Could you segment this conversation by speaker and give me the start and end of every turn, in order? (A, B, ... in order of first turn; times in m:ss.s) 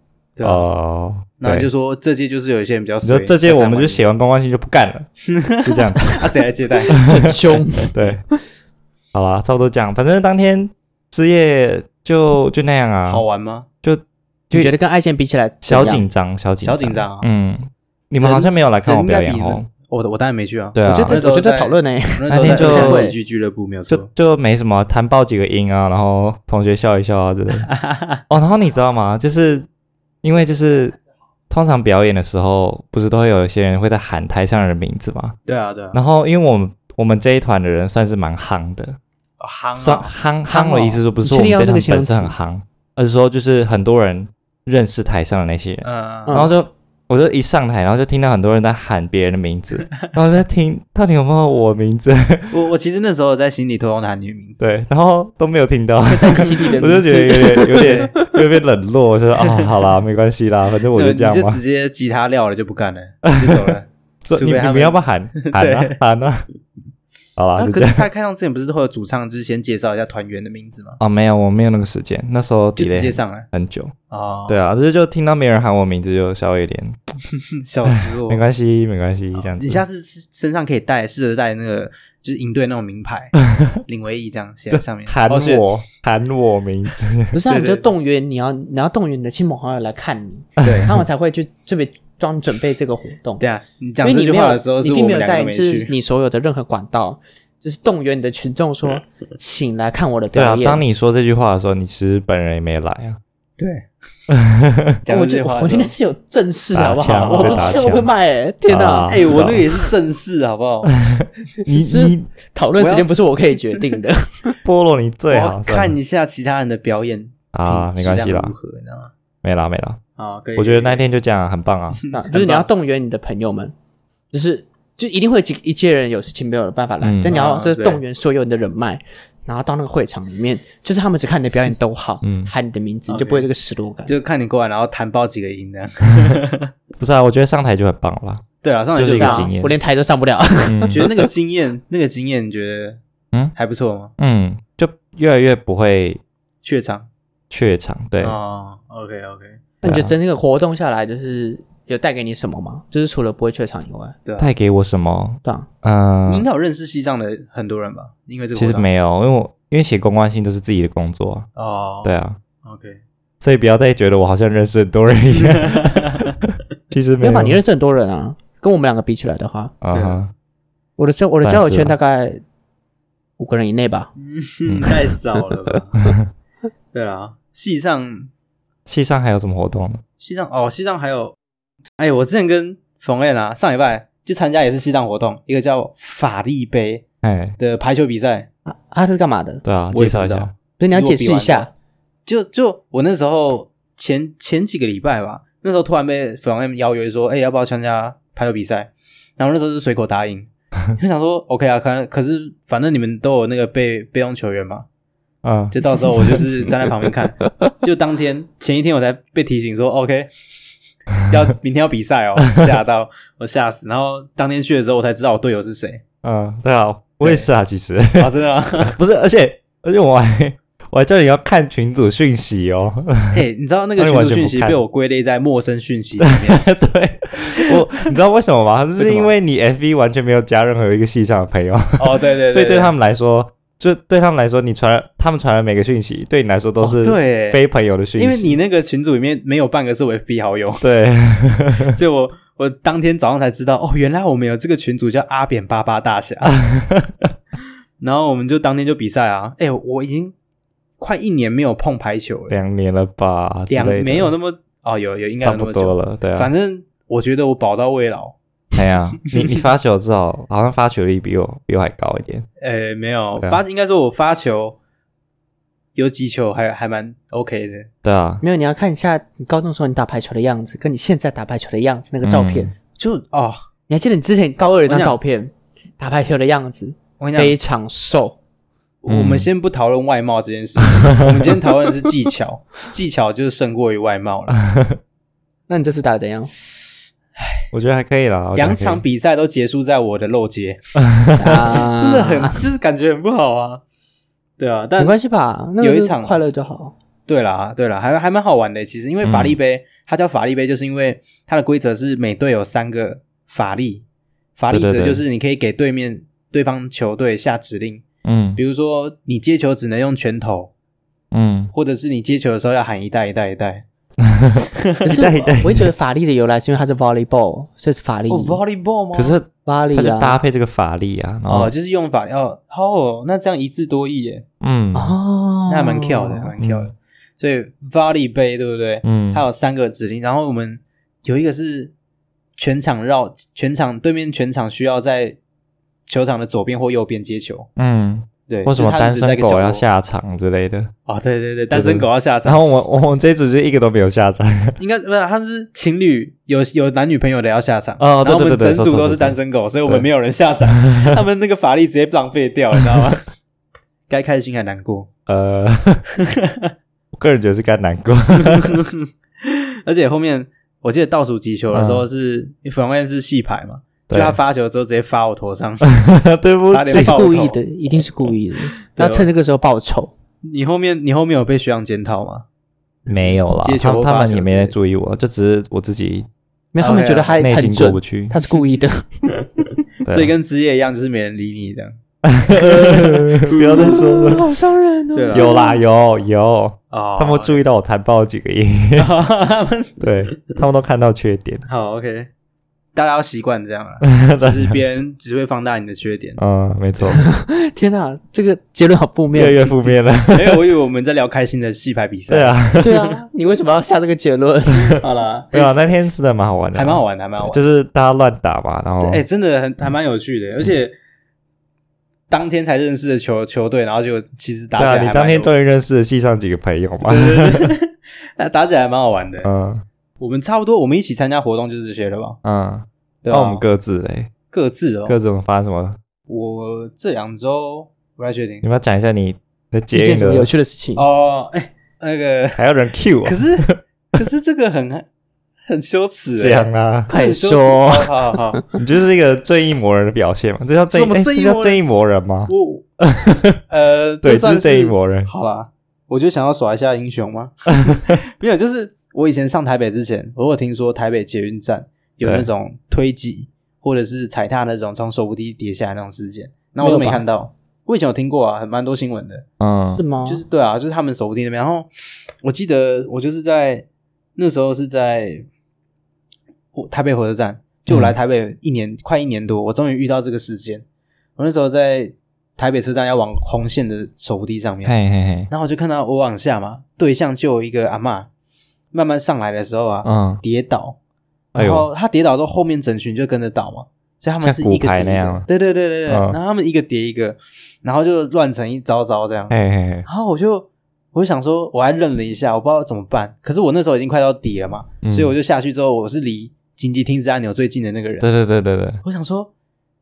0:00.4-0:00.6 A
0:00.4-0:01.7 B
0:01.4-0:04.0 A
0:03.0-0:05.1 B
0:05.3-0:07.1 A
0:05.6-0:06.2 B
0:06.9-0:07.4 B
0:06.9-0:07.9 C
0:07.9-0:08.2 B
0:09.1-0:13.2 B
0:13.1-0:13.7 A
0:13.8-0:14.7 B
0:14.5-0:16.0 C
0:15.6-0:19.7 B
0:16.6-0:17.3 A
0:18.2-0:24.1 A
0:20.7-0:21.2 B
0:20.8-0:23.1 C
0:22.3-0:23.1 B
0:23.9-0:27.7 B
0:27.6-0:28.2 A
0:28.3-0:29.7 B
0:30.2-0:31.0 B
0:31.5-0:35.4 B
0:35.5-0:36.0 A
0:35.9-0:39.0 B
0:39.4-0:40.1 A
0:39.8-0:52.5 B
0:40.4-0:42.3 C
0:45.8-0:46.4 A
0:46.3-0:46.5 C
0:52.5-0:54.6 A
0:54.6-1:01.6 B
0:56.1-0:58.3 C
0:57.7-0:58.1 A
0:59.4-0:59.8 A
1:01.0-1:06.0 A
1:03.2-1:06.4 B
1:07.4-1:08.0 B
1:07.6-1:11.0 A
1:11.0-1:13.9 B
1:12.8-1:13.5 A
1:14.1-1:14.6 A
1:14.5-1:17.0 B
1:17.6-1:18.4 A
1:17.9-1:19.8 B
1:19.3-1:25.6 A
1:23.5-1:23.8 B
1:24.7-1:27.3 B
1:27.3-1:33.4 C
1:27.5-1:27.9 A
1:30.6-1:31.0 B
1:30.6-1:31.0 A
1:33.4-1:35.9 A
1:34.0-1:40.8 C
1:40.3-1:43.2 B
1:43.6-1:43.9 A
1:44.3-1:45.0 B
1:45.0-1:45.9 A
1:45.1-1:49.4 C
1:46.7-1:48.1 B
1:47.0-1:47.7 A
1:48.7-1:49.7 B
1:49.1-1:50.9 A
1:50.9-1:52.3 B
1:51.6-1:54.5 C
1:52.8-1:53.1 A
1:54.6-1:56.0 B
1:55.3-1:59.1 A
1:57.5-1:58.5 B
1:59.4-2:00.0 B
2:00.2-2:01.0 A
2:00.6-2:02.0 B
2:02.0-2:02.7 A
2:02.1-2:03.7 C
2:04.3-2:14.1 C
2:07.0-2:07.4 B
2:07.3-2:08.0 A
2:12.2-2:12.5 B
2:13.1-2:13.5 A
2:14.1-2:16.7 A
2:17.0-2:18.4 B
2:18.6-2:19.5 A
2:19.0-2:19.7 B
2:19.2-2:21.2 C
2:20.7-2:21.1 B
2:20.9-2:23.0 A
2:23.5-2:24.1 A
2:24.2-2:26.2 B
2:26.6-2:27.1 A
2:27.5-2:28.4 B
2:28.2-2:29.6 A
2:29.8-2:34.2 C
2:29.8-2:30.1 B
2:34.4-2:36.4 B
2:36.3-2:38.9 A
2:38.6-2:41.5 B
2:41.6-2:43.0 A
2:42.0-2:42.4 B
2:43.4-2:47.6 B
2:45.3-2:46.3 A
2:47.2-2:49.7 C
2:49.8-2:50.3 B
2:49.9-2:50.2 A
2:51.0-2:52.4 C
2:51.4-2:51.9 B
2:53.4-2:54.1 C
2:54.2-2:56.1 A
2:54.7-2:55.0 B
2:56.9-2:58.3 A
2:58.8-3:00.0 B
3:00.2-3:01.3 A
3:02.0-3:07.0 A
3:07.2-3:07.6 B
3:07.6-3:08.5 A
3:08.7-3:09.6 C
3:09.6-3:10.5 B
3:09.9-3:11.7 A
3:10.8-3:11.7 C
3:12.2-3:24.8 A
3:25.4-3:26.4 B
3:25.7-3:30.3 A
3:31.3-3:36.0 A
3:36.2-3:43.4 B
3:37.2-3:37.5 A
3:38.2-3:39.0 A
3:43.3-3:46.6 A
3:44.0-3:44.8 B
3:46.2-3:58.6 B
3:49.0-3:49.3 A
3:52.0-3:52.9 A
3:56.8-3:57.6 A
3:58.2-4:00.8 A
4:00.8-4:01.9 B
4:01.8-4:06.6 A
4:06.4-4:07.2 B
4:08.0-4:10.3 A
4:11.0-4:12.6 A
4:12.5-4:14.3 B
4:13.7-4:18.4 A
4:15.4-4:16.5 B
4:18.7-4:22.4 B
4:22.6-4:24.8 A
4:26.0-4:27.9 A
4:28.0-4:28.4 B
4:28.4-4:32.7 C
4:32.2-4:32.7 B
4:33.0-4:33.6 A
4:33.9-4:38.4 C
4:34.9-4:35.2 A
4:37.2-4:37.6 A
4:39.0-4:44.6 A
4:39.1-4:39.5 B
4:41.0-4:41.5 B
4:44.6-4:45.0 B
4:45.7-4:46.5 C
4:47.4-4:47.6 A
4:47.7-4:49.0 B
4:48.5-4:50.8 A
4:51.0-4:51.7 B
4:51.4-4:52.6 C
4:51.6-4:53.8 A
4:54.6-4:55.2 A
4:55.0-4:56.9 C
4:55.8-4:56.4 A
4:57.3-5:04.0 A
4:59.2-4:59.6 B
5:04.6-5:08.0 A
5:04.7-5:05.2 B
5:08.2-5:08.6 B
5:08.6-5:10.7 A
5:11.3-5:11.7 B
5:11.7-5:13.8 A
5:14.2-5:15.9 B
5:14.8-5:15.5 A
5:15.0-5:18.6 C
5:18.3-5:19.4 A
5:19.1-5:21.7 B
5:19.6-5:20.4 C
5:21.5-5:24.4 A
5:24.6-5:25.2 B
5:24.9-5:26.5 C
5:25.7-5:31.9 A
5:26.6-5:26.9 B
5:29.0-5:29.4 B
5:32.6-5:35.4 A
5:36.1-5:37.7 A
5:37.8-5:40.9 B
5:38.5-5:39.8 A
5:41.1-5:42.6 A
5:41.7-5:44.8 B
5:44.8-5:53.3 A
5:48.0-5:50.0 B
5:54.1-5:55.1 A
5:55.3-5:56.0 B
5:56.2-5:56.7 A
5:57.1-5:58.8 B
5:58.4-6:06.0 A
6:01.7-6:02.0 B
6:04.1-6:04.4 B
6:05.8-6:07.3 B
6:06.7-6:07.6 A
6:06.9-6:10.1 C
6:08.9-6:09.3 A
6:10.4-6:12.4 A
6:13.0-6:14.7 A
6:13.1-6:16.3 B
6:16.7-6:19.1 C
6:16.8-6:17.4 A
6:17.4-6:18.3 B
6:20.0-6:20.3 B
6:20.1-6:22.0 A
6:22.2-6:24.4 B
6:22.6-6:25.8 C
6:22.7-6:24.0 A
6:25.1-6:25.5 A
6:25.3-6:29.1 B
6:26.9-6:27.6 A
6:29.0-6:30.6 A
6:30.0-6:31.6 B
6:31.6-6:32.3 A
6:32.9-6:36.4 A
6:34.0-6:34.8 B
6:36.4-6:37.2 B
6:37.1-6:39.8 C
6:39.3-6:40.6 B
6:40.3-6:42.7 A
6:42.3-6:43.0 B
6:42.8-6:45.0 C
6:45.0-6:45.8 A
6:45.5-6:49.2 B
6:46.7-6:47.6 A
6:49.0-6:50.9 A
6:52.3-6:55.5 A
6:54.8-6:57.7 B
6:57.0-6:59.5 A
6:59.4-6:59.8 B
7:00.2-7:02.4 A
7:02.4-7:04.3 B
7:03.2-7:03.6 A
7:04.5-7:05.2 A
7:05.0-7:06.0 B
7:06.3-7:08.6 A
7:08.6-7:10.5 B
7:09.9-7:11.0 C
7:11.0-7:12.6 A
7:12.6-7:13.7 B
7:13.2-7:15.0 A
7:15.6-7:18.6 A
7:16.4-7:17.1 B
7:17.1-7:18.6 C
7:18.8-7:23.6 B
7:20.9-7:21.8 A
7:22.5-7:22.8 A
7:23.7-7:39.4 A
7:24.2-7:25.3 B
7:36.8-7:37.2 C
7:39.6-7:40.0 B
7:40.0-7:40.4 C
7:40.2-7:41.9 A
7:42.4-7:45.5 A
7:46.7-7:50.8 A
7:47.9-7:48.1 B
7:51.4-7:54.9 A
7:54.8-7:55.5 B
7:55.5-7:58.3 A
7:58.9-8:01.0 A
8:00.0-8:00.4 B
8:01.5-8:09.5 A
8:01.5-8:01.9 B
8:04.4-8:05.4 B
8:06.1-8:06.4 B
8:09.5-8:10.0 B
8:10.0-8:18.3 A
8:15.0-8:15.3 B
8:18.2-8:19.0 B
8:19.0-8:19.5 A